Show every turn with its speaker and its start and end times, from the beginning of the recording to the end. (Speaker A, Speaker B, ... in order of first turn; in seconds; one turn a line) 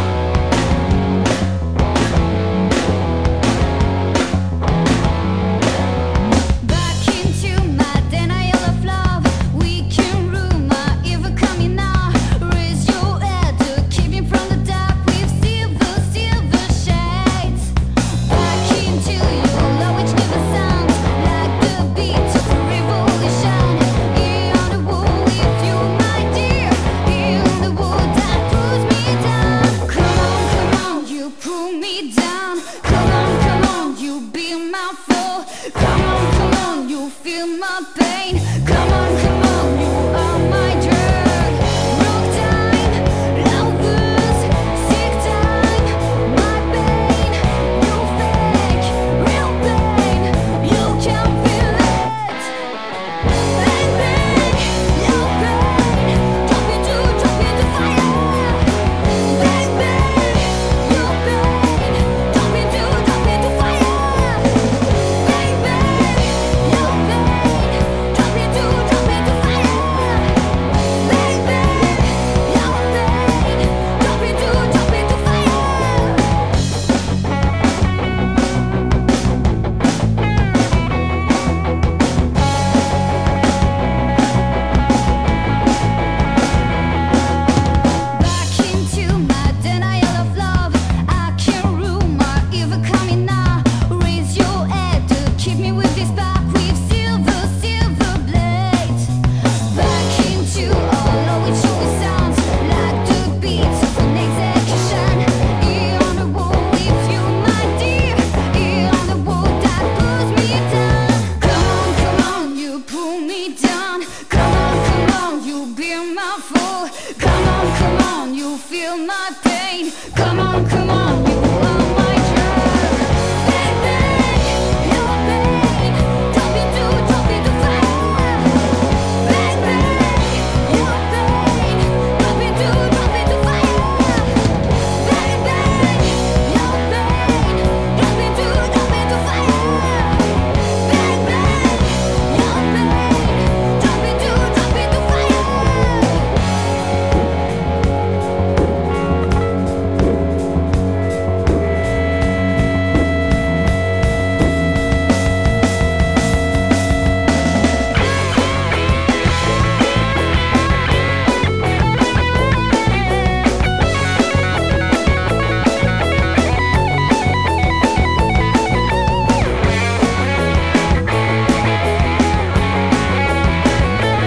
Speaker A: 6.6-52.5
Speaker A: 53.3-76.3
Speaker A: 88.1-146.3